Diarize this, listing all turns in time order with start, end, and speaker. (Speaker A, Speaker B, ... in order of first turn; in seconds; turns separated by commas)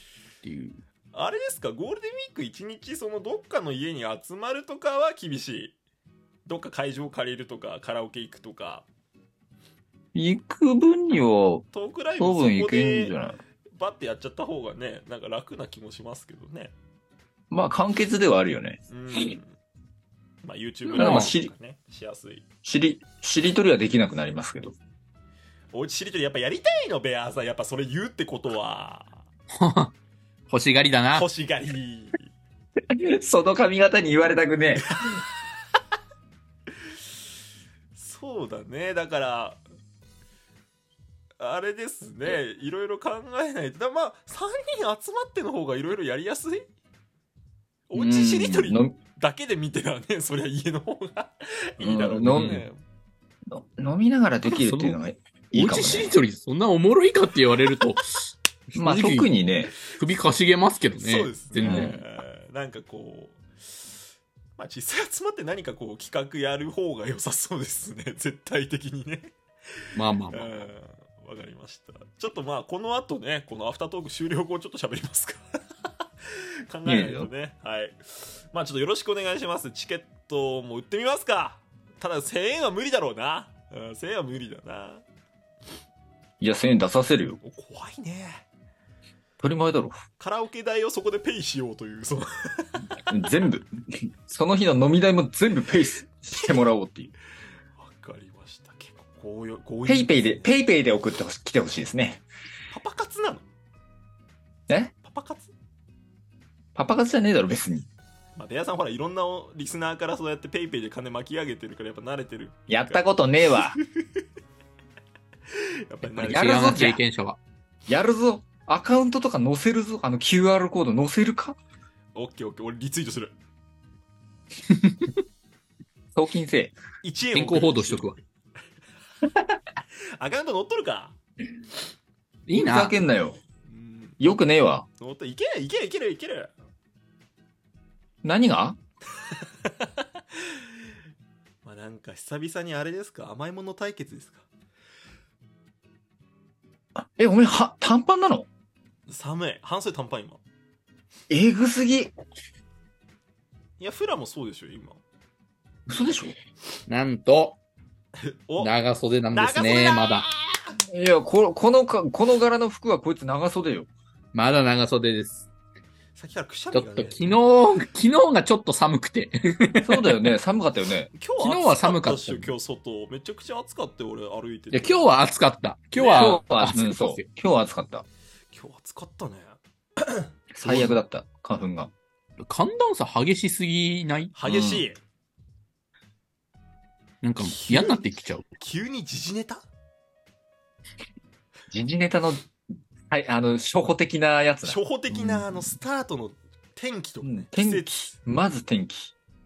Speaker A: 0.4-0.8, Speaker B: 1.1-5.8, Speaker B: 6.5-8.9, Speaker C: 10.1-11.7, Speaker B: 11.7-13.2, Speaker C: 12.2-13.4, Speaker B: 13.7-16.7, Speaker C: 17.5-19.4, Speaker B: 18.9-19.6, Speaker B: 20.4-22.4, Speaker A: 20.9-21.3, Speaker C: 20.9-21.5, Speaker C: 22.6-24.8, Speaker B: 25.7-29.2, Speaker A: 29.6-29.9, Speaker A: 30.5-31.3, Speaker B: 31.1-32.3, Speaker C: 32.9-34.9, Speaker B: 34.9-35.2, Speaker B: 37.9-39.6, Speaker B: 41.4-46.7, Speaker B: 47.9-52.8, Speaker C: 48.0-49.0, Speaker C: 51.8-52.7, Speaker A: 52.2-52.6, Speaker C: 53.5-56.1, Speaker A: 54.5-55.0, Speaker A: 55.5-59.3, Speaker C: 58.8-59.8, Speaker A: 59.9-62.0, Speaker B: 61.0-63.4, Speaker C: 61.6-62.0, Speaker B: 64.6-69.3, Speaker A: 70.0-70.5, Speaker B: 70.3-75.4, Speaker B: 76.3-85.0, Speaker C: 76.9-77.3, Speaker C: 86.4-87.4, Speaker B: 87.4-88.4, Speaker C: 89.4-90.0, Speaker B: 90.2-93.0, Speaker C: 93.1-97.1, Speaker B: 96.3-96.7, Speaker B: 97.8-100.5, Speaker C: 99.9-102.2, Speaker B: 102.7-103.5, Speaker B: 105.0-105.5, Speaker C: 106.8-107.9, Speaker B: 108.4-113.0, Speaker C: 112.7-113.8, Speaker B: 113.7-114.2, Speaker B: 115.5-116.9, Speaker A: 116.1-117.4, Speaker C: 116.2-117.0, Speaker C: 117.9-121.6, Speaker B: 122.2-123.3, Speaker A: 124.7-125.2, Speaker C: 126.2-126.8, Speaker B: 127.0-128.1, Speaker A: 127.3-128.2, Speaker B: 130.2-131.2, Speaker A: 132.5-132.9, Speaker C: 132.5-133.4, Speaker B: 133.7-134.2, Speaker C: 134.2-134.9, Speaker B: 135.0-136.5, Speaker C: 138.2-138.8, Speaker B: 139.2-140.6, Speaker B: 141.6-144.5, Speaker C: 147.0-148.5, Speaker B: 149.1-150.4, Speaker C: 151.3-152.1, Speaker B: 153.8-155.0, Speaker C: 155.9-156.3, Speaker A: 156.9-157.6, Speaker B: 158.2-158.7, Speaker A: 158.6-160.3, Speaker B: 159.3-160.8, Speaker C: 160.9-163.9, Speaker A: 164.3-165.5, Speaker B: 166.2-167.3, Speaker A: 166.7-170.1, Speaker C: 169.8-171.1, Speaker B: 171.2-175.1, Speaker A: 171.4-172.5, Speaker A: 174.7-177.2, Speaker B: 176.0-176.4, Speaker C: 176.1-178.1, Speaker B: 178.5-180.3, Speaker C: 180.5-181.9, Speaker A: 180.6-181.0, Speaker A: 182.4-184.3, Speaker B: 184.3-185.0, Speaker C: 184.4-184.9, Speaker A: 187.2-188.5, Speaker B: 187.4-189.7, Speaker C: 191.7-192.5, Speaker C: 193.1-194.8, Speaker B: 194.6-198.1, Speaker A: 195.1-195.7, Speaker C: 197.2-199.1